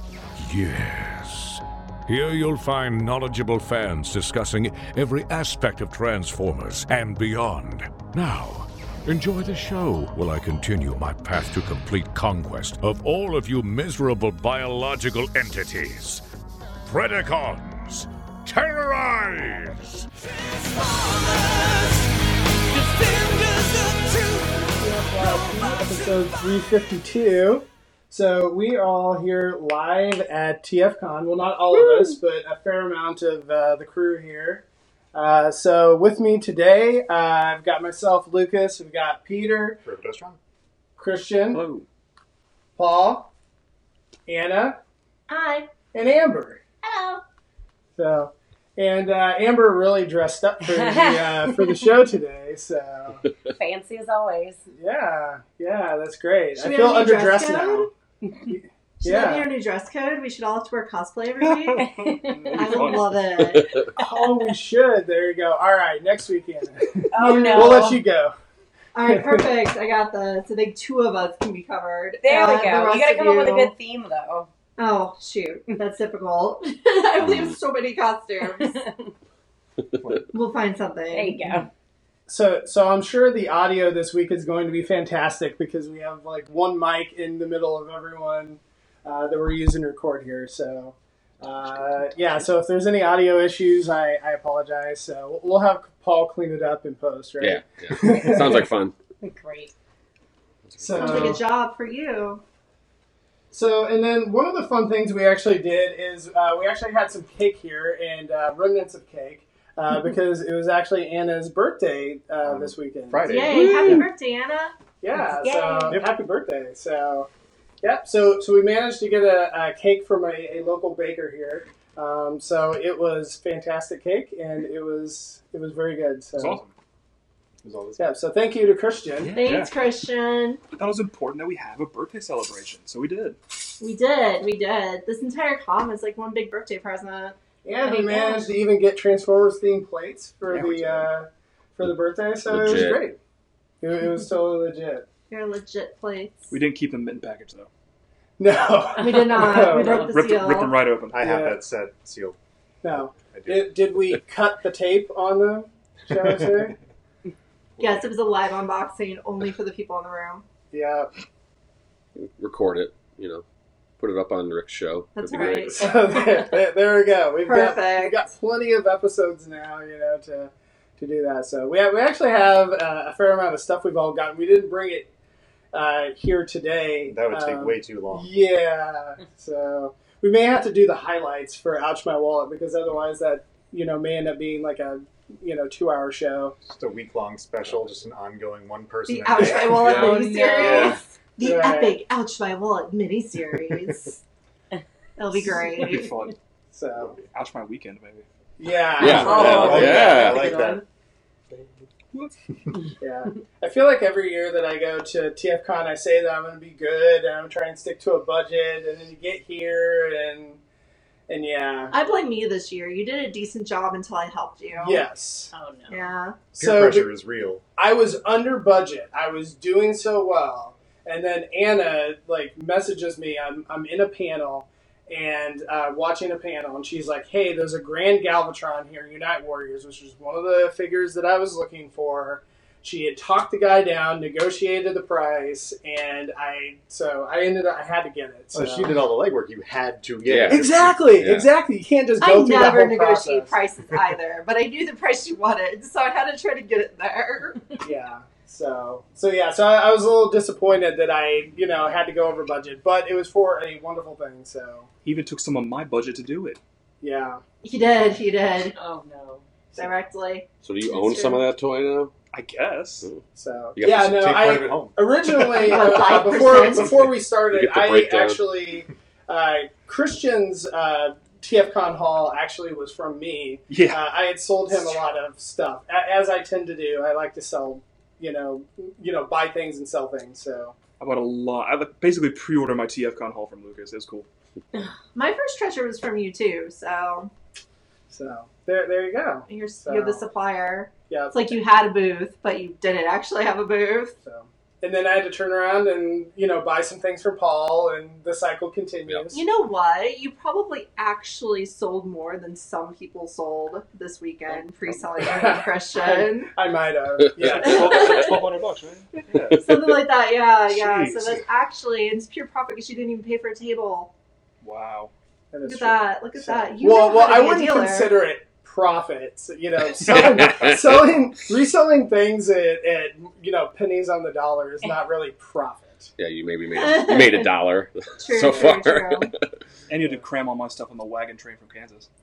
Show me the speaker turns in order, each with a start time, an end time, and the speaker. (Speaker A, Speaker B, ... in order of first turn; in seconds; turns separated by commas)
Speaker A: 0.4-16.2, Speaker A: 16.9-20.0, Speaker B: 22.8-23.1, Speaker C: 24.8-34.6, Speaker C: 35.1-39.8, Speaker D: 39.8-40.4, Speaker C: 41.0-41.7, Speaker B: 41.5-41.9, Speaker C: 42.8-43.3, Speaker C: 44.3-44.8, Speaker E: 45.3-45.7, Speaker C: 45.9-46.6, Speaker E: 46.8-47.2, Speaker C: 48.0-53.2, Speaker F: 50.7-51.8, Speaker F: 53.5-54.6, Speaker C: 54.7-57.9, Speaker E: 56.6-57.9, Speaker F: 58.2-58.5, Speaker C: 58.5-59.5, Speaker E: 59.0-61.9, Speaker B: 61.4-63.3, Speaker F: 61.8-62.9, Speaker E: 62.5-63.9, Speaker G: 63.4-63.9, Speaker C: 63.9-68.4, Speaker F: 67.1-68.0, Speaker E: 67.2-68.0, Speaker E: 68.9-73.7, Speaker C: 69.0-69.5, Speaker F: 72.2-74.5, Speaker E: 74.8-78.8, Speaker G: 77.2-77.6, Speaker F: 78.6-79.1, Speaker E: 80.3-81.5, Speaker F: 81.1-81.7, Speaker C: 82.3-98.7, Speaker D: 91.6-92.4, Speaker G: 97.4-98.9, Speaker F: 99.2-99.7, Speaker G: 100.7-101.4, Speaker C: 100.8-101.4, Speaker E: 101.0-102.4, Speaker C: 103.5-113.5, Speaker D: 112.4-114.0, Speaker E: 113.3-114.8, Speaker B: 113.5-114.0, Speaker C: 115.0-117.3, Speaker F: 115.2-116.0, Speaker C: 117.8-126.6, Speaker B: 126.3-126.7, Speaker D: 127.6-128.2, Speaker C: 128.0-129.5, Speaker B: 129.2-129.8, Speaker E: 129.3-130.6, Speaker B: 130.8-133.4, Speaker E: 133.8-138.4, Speaker C: 137.7-143.2, Speaker F: 138.0-138.4, Speaker B: 140.5-141.1, Speaker G: 142.5-143.0, Speaker C: 143.8-145.1, Speaker E: 145.3-146.5, Speaker B: 146.5-147.7, Speaker C: 148.4-150.1, Speaker E: 149.0-150.8, Speaker B: 149.9-151.2, Speaker D: 151.1-152.4, Speaker C: 151.2-151.6, Speaker C: 152.8-156.8, Speaker D: 153.2-153.8, Speaker D: 156.1-156.4, Speaker E: 157.8-160.4, Speaker C: 160.7-161.1, Speaker G: 162.2-163.4, Speaker G: 164.0-165.9, Speaker E: 165.2-166.2, Speaker C: 165.4-175.1, Speaker E: 167.5-168.3, Speaker C: 175.7-186.6, Speaker D: 177.1-178.3, Speaker D: 186.6-190.1, Speaker E: 189.1-194.2, Speaker B: 189.8-190.1, Speaker F: 189.8-191.0, Speaker G: 190.6-191.0, Speaker D: 190.6-191.0, Speaker C: 191.4-192.0, Speaker E: 195.2-196.1, Speaker B: 195.3-196.3, Speaker C: 196.7-197.2, Speaker B: 197.3-198.2, Speaker C: 198.6-200.1, Speaker G: 199.0-200.5, Speaker D: 199.0-200.8, Speaker F: 199.1-200.8, Speaker C: 203.0-210.6, Speaker C: 211.3-211.9, Speaker E: 211.9-215.1, Speaker C: 214.8-215.5, Speaker F: 215.5-216.1, Speaker E: 215.9-216.4, Speaker C: 216.5-217.1, Speaker D: 216.6-217.6, Speaker C: 217.8-239.0, Speaker D: 238.5-241.2, Speaker G: 240.3-241.5, Speaker C: 240.5-243.6, Speaker E: 242.2-247.8, Speaker C: 247.8-254.9, Speaker B: 255.0-256.6, Speaker C: 257.0-257.4, Speaker E: 257.6-258.8, Speaker F: 258.7-259.4, Speaker E: 259.7-261.4, Speaker G: 260.6-262.1, Speaker B: 262.3-263.1, Speaker C: 263.3-280.8, Speaker G: 263.8-264.6, Speaker D: 264.0-265.1, Speaker E: 265.5-267.1, Speaker G: 266.8-268.4, Speaker B: 273.7-274.0, Speaker B: 281.0-284.3, Speaker E: 285.1-287.3, Speaker C: 288.1-290.2, Speaker E: 289.5-294.2, Speaker C: 291.1-291.6, Speaker C: 294.2-299.4, Speaker E: 299.3-306.5, Speaker B: 304.5-305.1, Speaker C: 305.2-308.3, Speaker G: 307.4-308.2, Speaker B: 307.4-309.8, Speaker E: 307.7-308.5, Speaker E: 309.1-314.1, Speaker B: 310.7-311.4, Speaker B: 314.6-315.1, Speaker C: 315.5-326.1, Speaker E: 315.6-318.1, Speaker G: 320.0-321.2, Speaker G: 326.2-329.4, Speaker E: 326.7-327.5, Speaker E: 328.2-329.3, Speaker B: 329.9-332.1, Speaker C: 329.9-330.3